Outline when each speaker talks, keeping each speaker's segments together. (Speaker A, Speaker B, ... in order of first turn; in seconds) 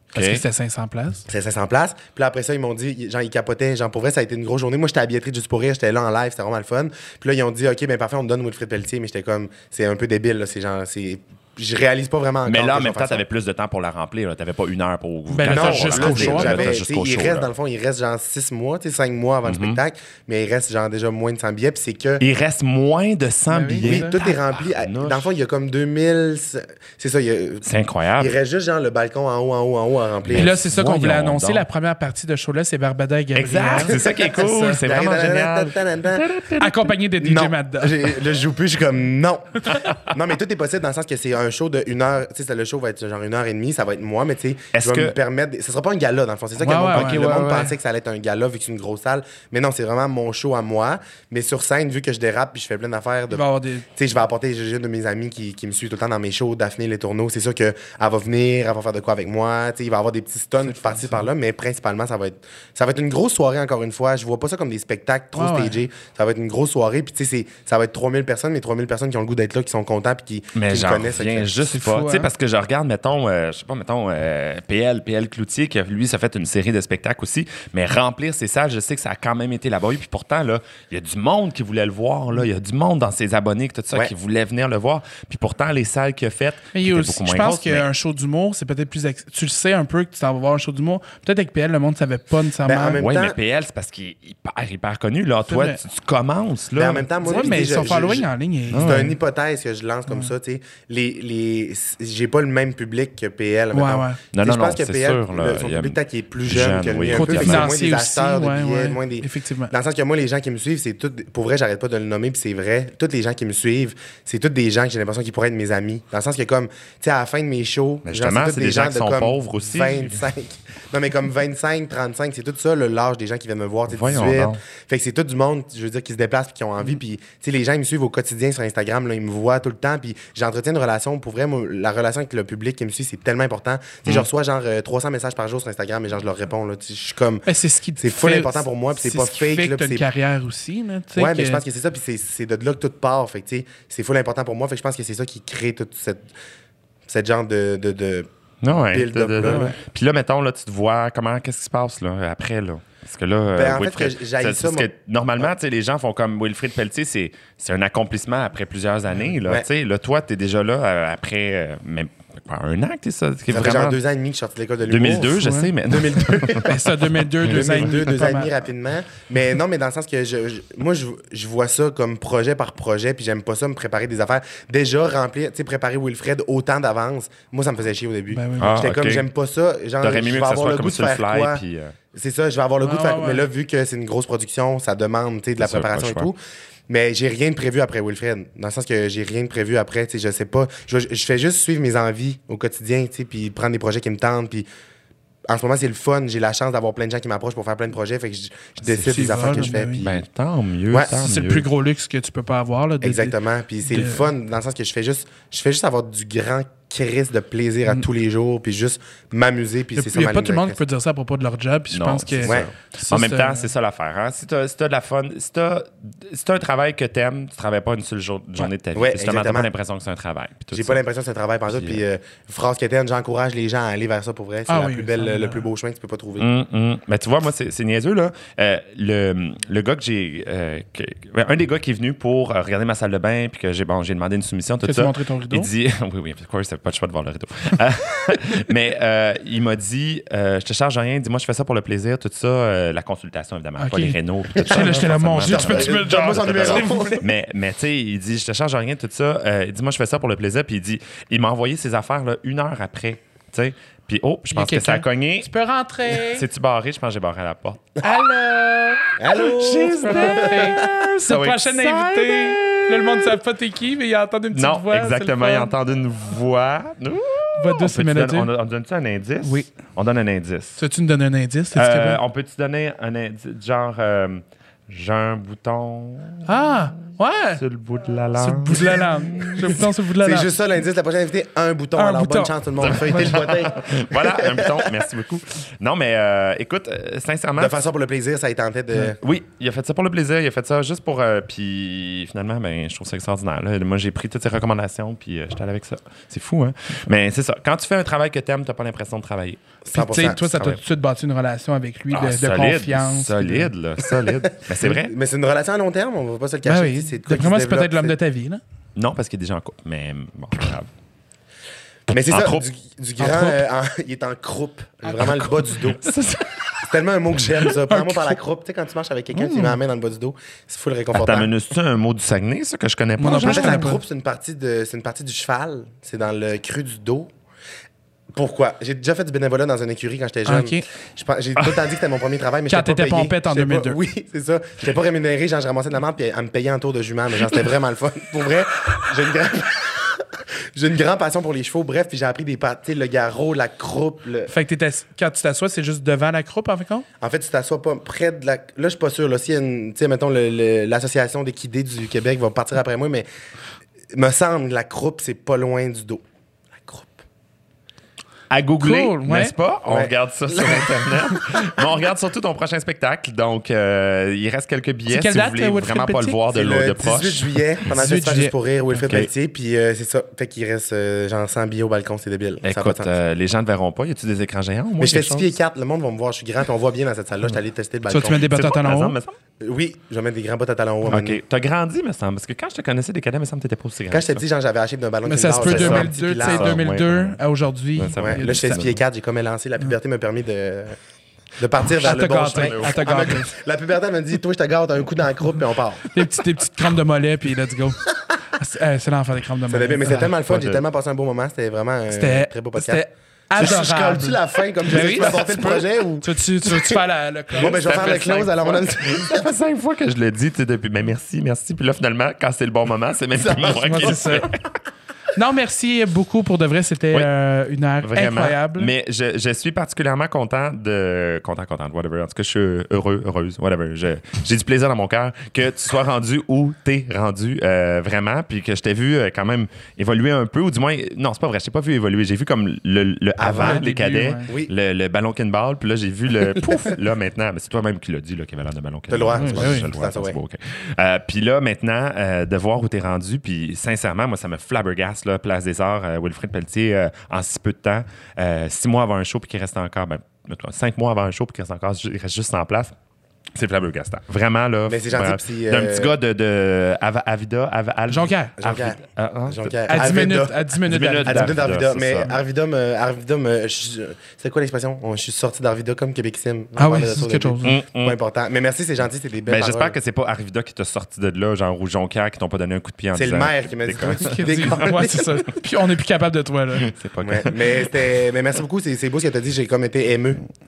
Speaker A: 0.1-1.2, 15.3-16.8, 23.5-24.2, 30.3-34.8, 36.6-38.1, 46.6-47.7, 53.3-53.9, 60.7-61.2, 65.3-65.8, 71.7-72.3, 86.7-93.0, 95.5-95.8, 97.2-99.1, 100.1-100.3, 103.7-104.2, 107.1-109.7, 137.4-141.6, 149.4-149.7, 165.4-165.7, 166.6-168.5, 178.3-178.8, 182.8-183.4, 198.8-200.1, 201.1-204.2, 209.9-213.7, 224.7-225.6, 234.8-235.7, 243.8-247.3, 254.5-256.4, 258.0-259.1, 260.0-265.7, 267.6-268.5, 269.4-269.7, 270.8-272.2, 276.4-277.6, 278.4-280.5, 281.9-283.4, 299.9-303.7, 306.6-308.6, 313.2-313.6, 317.9-318.4, 319.3-319.8, 323.2-324.0, 330.4-330.8, 332.7-334.0, 344.5-347.1, 358.8-359.5, 365.1-366.4, 367.9-369.1, 378.1-379.1, 385.2-388.8, 391.9-393.5, 396.1-400.3, 402.1-408.2, 413.6-414.5, 415.3-418.9, 433.5-434.5, 439.4-439.9, 458.1-458.5, 459.9-461.7, 466.8-467.8, 474.0-476.9
Speaker B: 0.1-0.4, 12.4-17.5, 19.4-19.8, 22.2-25.3, 27.6-28.3, 30.2-31.6, 33.3-37.0, 44.7-45.1, 46.9-47.4, 70.5-87.8, 92.9-97.1, 98.7-99.1, 104.3-107.7, 118.0-120.2, 123.9-124.6, 148.6-164.0, 164.9-166.8, 167.5-167.8, 178.6-179.2, 180.0-181.9, 185.6-186.3, 200.0-201.7, 211.9-221.0, 221.7-222.0, 226.4-255.5, 256.1-258.0, 259.3-263.4, 264.5-270.8, 271.7-276.5, 277.5-279.8, 282.8-287.8, 289.1-299.6, 300.5-300.8, 302.1-305.1, 308.9-310.9, 312.3-312.7, 315.2-316.8, 321.1-323.9, 358.5-367.6, 372.6-375.5, 378.5-379.3, 381.1-384.4, 385.6-387.4, 387.9-389.0, 392.5-393.0, 400.3-400.8, 407.5-414.6, 418.0-452.9, 453.5-460.2, 460.8-462.3, 467.6-468.2, 469.5-474.9, 476.8-477.9
Speaker C: 1.3-13.2, 15.4-22.2, 23.8-27.6, 28.2-30.5, 33.8-36.3, 37.2-71.6, 92.6-93.3, 96.8-140.1, 141.2-146.3, 147.1-148.3, 148.9-149.7, 153.5-154.9, 163.5-186.4, 186.9-194.7, 195.4-200.1, 203.0-210.8, 212.4-212.7, 218.9-219.7, 220.7-226.4, 244.6-247.2, 259.2-260.7, 279.8-284.9, 287.6-289.2, 299.8-300.7, 304.4-308.2, 312.1-316.0, 316.8-321.5, 323.3-327.3, 328.3-344.5, 347.2-353.2, 354.1-356.2, 356.8-357.2, 359.9-360.9, 366.5-373.1, 375.0-378.4, 379.6-381.4, 384.1-386.8, 388.2-391.0, 391.6-396.1, 399.7-403.0, 403.5-407.0, 407.5-409.5, 413.4-414.2, 433.4-433.9, 439.1-440.4, 454.9-456.1, 458.6-460.6, 461.2-469.9, 473.1-475.5, 477.2-480.4